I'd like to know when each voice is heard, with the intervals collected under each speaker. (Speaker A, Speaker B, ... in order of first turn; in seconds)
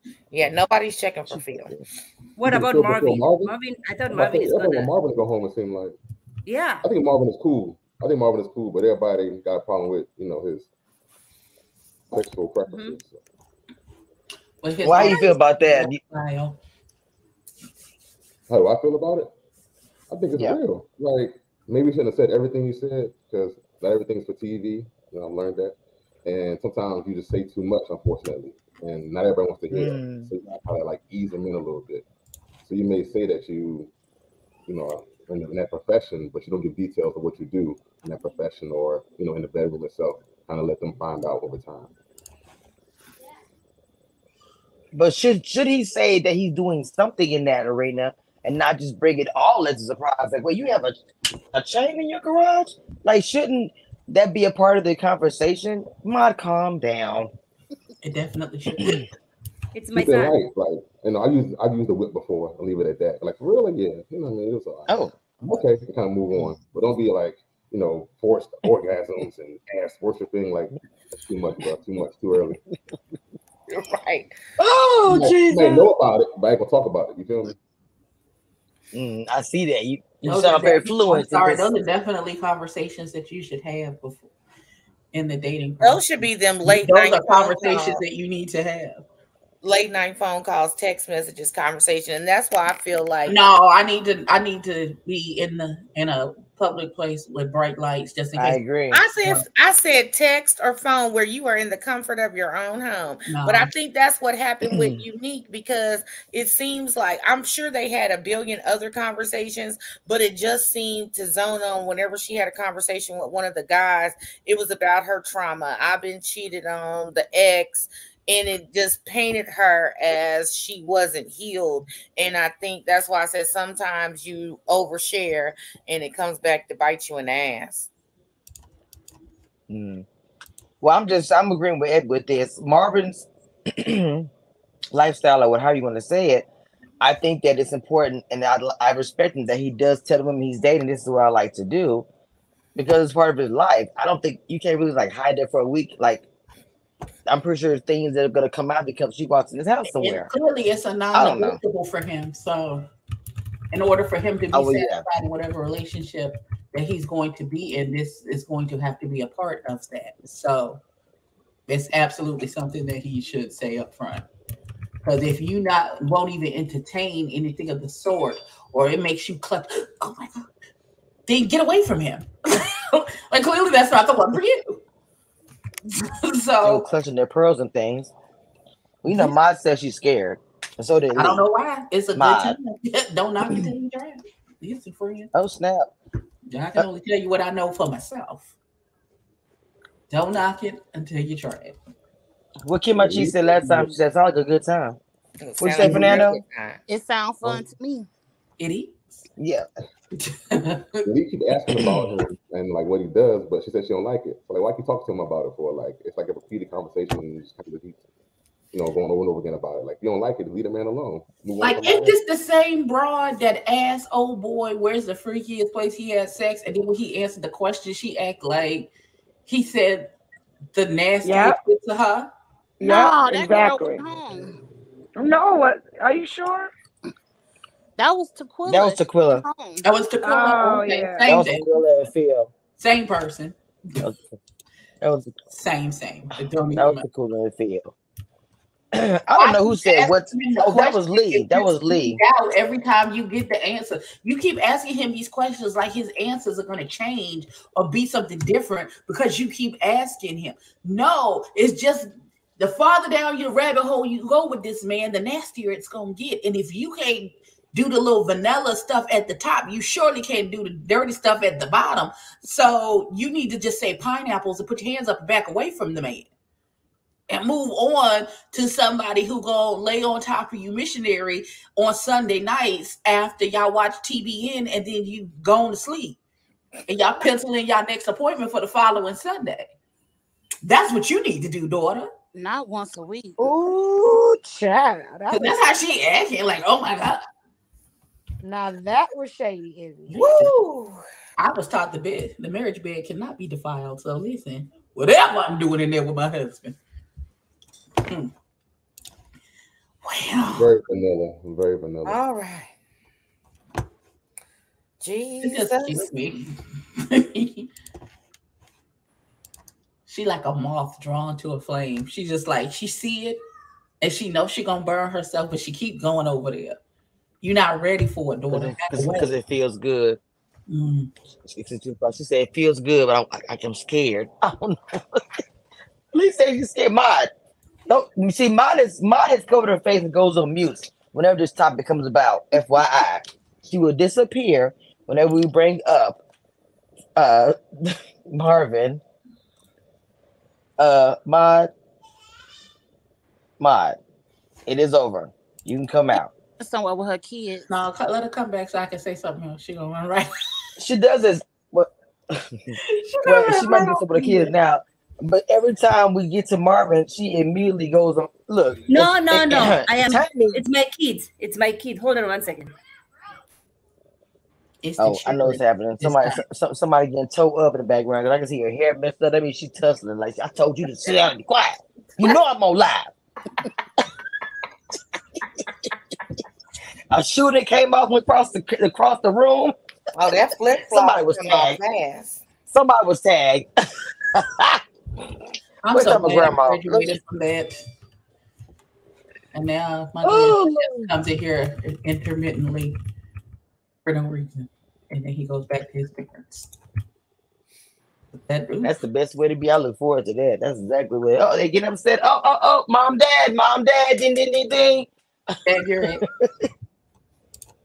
Speaker A: 0.3-1.7, 73.7-74.3, 85.8-88.0, 89.6-93.5, 98.9-127.9, 195.4-196.8, 290.3-291.0, 302.1-302.7, 305.0-306.1, 380.1-382.4
Speaker B: 1.3-1.8, 14.8-16.0, 29.7-30.3, 44.9-51.0, 51.5-57.3, 64.9-65.6, 74.6-75.9, 78.9-81.7, 98.4-99.0, 104.7-105.0, 129.7-130.1, 130.8-134.3, 134.9-136.5, 137.0-142.1, 142.8-146.2, 147.3-150.3, 151.1-151.6, 154.5-155.1, 176.6-178.1, 179.0-181.4, 182.1-182.6, 185.3-185.9, 192.6-195.0, 195.6-196.4, 199.4-199.7, 228.7-229.4, 231.3-232.5, 235.0-235.4, 236.8-237.9, 238.9-242.2, 318.5-320.2, 321.5-325.4, 326.1-327.3, 327.9-336.2, 337.2-339.0, 340.8-341.7, 343.6-344.0, 344.7-346.3, 350.8-352.7, 353.2-360.6, 365.0-373.1, 377.1-379.8, 380.3-381.8, 382.7-383.7, 384.3-384.8, 385.9-387.2, 390.2-391.1, 398.8-405.1, 406.0-406.7
Speaker C: 2.4-4.9, 6.5-6.9, 12.7-13.0, 59.7-60.4, 358.9-362.7
Speaker D: 2.5-3.5, 4.1-6.0, 6.8-10.7, 12.1-13.2, 18.5-19.3, 20.1-32.0, 32.6-33.9, 34.7-41.9, 59.9-72.6, 75.1-77.6, 193.0-193.9, 201.1-208.0, 208.7-212.2, 300.5-302.2
Speaker E: 14.6-16.6, 58.0-59.1, 80.2-84.3, 85.1-86.0, 86.7-89.0, 93.3-98.6, 103.3-103.7, 149.9-152.9, 153.7-160.8, 161.7-164.2, 165.0-170.5, 171.3-174.8, 175.9-176.8, 179.1-179.3, 181.2-185.3, 186.5-188.5, 190.1-191.8, 198.6-199.2, 200.2-201.1, 211.6-218.9, 219.5-220.1, 220.7-222.3, 229.8-231.7, 232.8-234.1, 235.5-237.0, 239.4-266.3, 267.3-276.2, 276.9-279.7, 280.6-282.1, 285.3-287.2, 290.1-290.5, 291.4-296.8, 298.1-298.3, 300.0-300.7, 305.4-307.7, 310.1-313.4, 314.0-316.8, 317.4-319.3, 320.7-321.1, 347.7-350.3, 352.8-354.5, 364.8-366.4, 385.8-387.8, 389.5-393.0, 394.1-396.7, 398.4-398.9, 405.7-406.2
Speaker F: 196.9-198.1, 222.8-224.6, 228.0-229.8, 282.4-283.4, 346.6-347.7
Speaker G: 221.2-221.6, 222.8-224.0, 225.2-226.7, 230.2-231.4, 283.4-285.6, 288.4-290.1